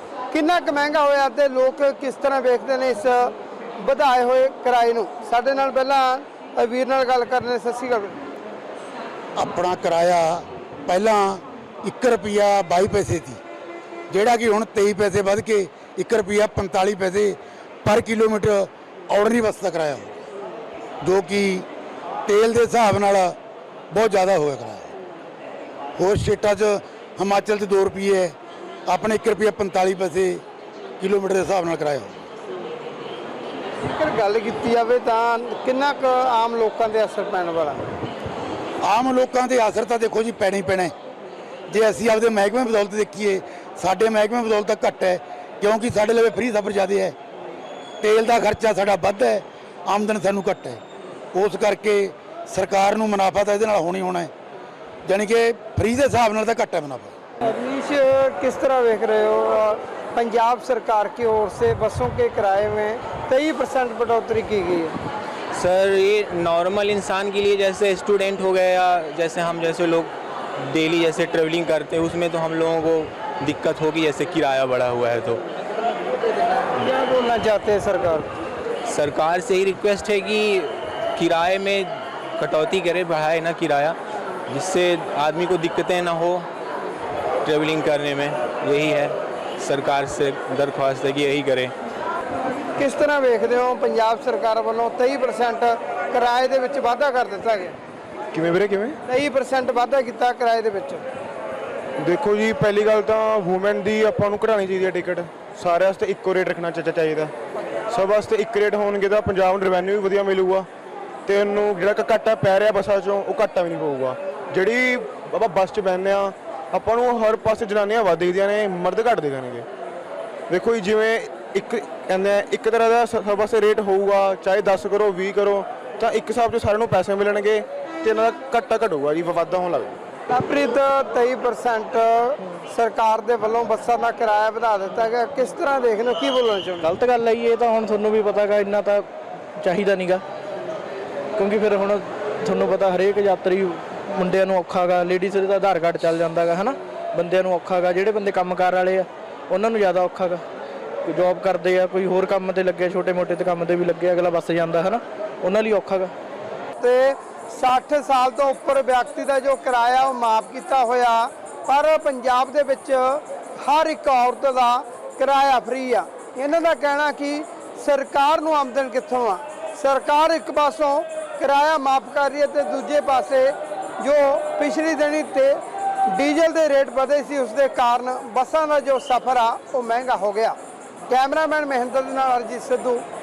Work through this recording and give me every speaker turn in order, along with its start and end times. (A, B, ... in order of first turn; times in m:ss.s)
0:00.3-0:08.2 A
0:09.4-0:13.4 B
0:14.1-0:20.1 B
0:21.0-0:21.6 B
0:22.2-0:23.4 B
0:23.9-0:24.9 B
0:26.0-0:28.3 B
0:28.9-0:30.4 B
0:31.0-0:32.2 B
0:33.8-0:37.8 A
0:38.8-0:40.9 B
0:41.7-0:47.1 B
0:48.0-0:50.8 B
0:51.3-0:54.3 B
0:55.1-0:57.1 B
0:57.4-1:04.9 A
1:05.5-1:15.4 C
1:16.6-1:18.3 A
1:18.9-1:24.0 C
1:24.5-1:26.5 C
1:27.4-1:31.7 C
1:32.8-1:37.7 A
1:38.3-1:39.0 D
1:39.1-1:41.0 A
1:42.0-1:47.3 D
1:47.9-1:50.7 D
1:51.2-1:59.7 D
2:00.5-2:10.0 D
2:10.3-2:16.9 A
2:16.8-2:20.2 E
2:21.4-2:30.4 E
2:31.0-2:36.1 E
2:36.8-3:00.6 A
3:01.1-3:03.0 A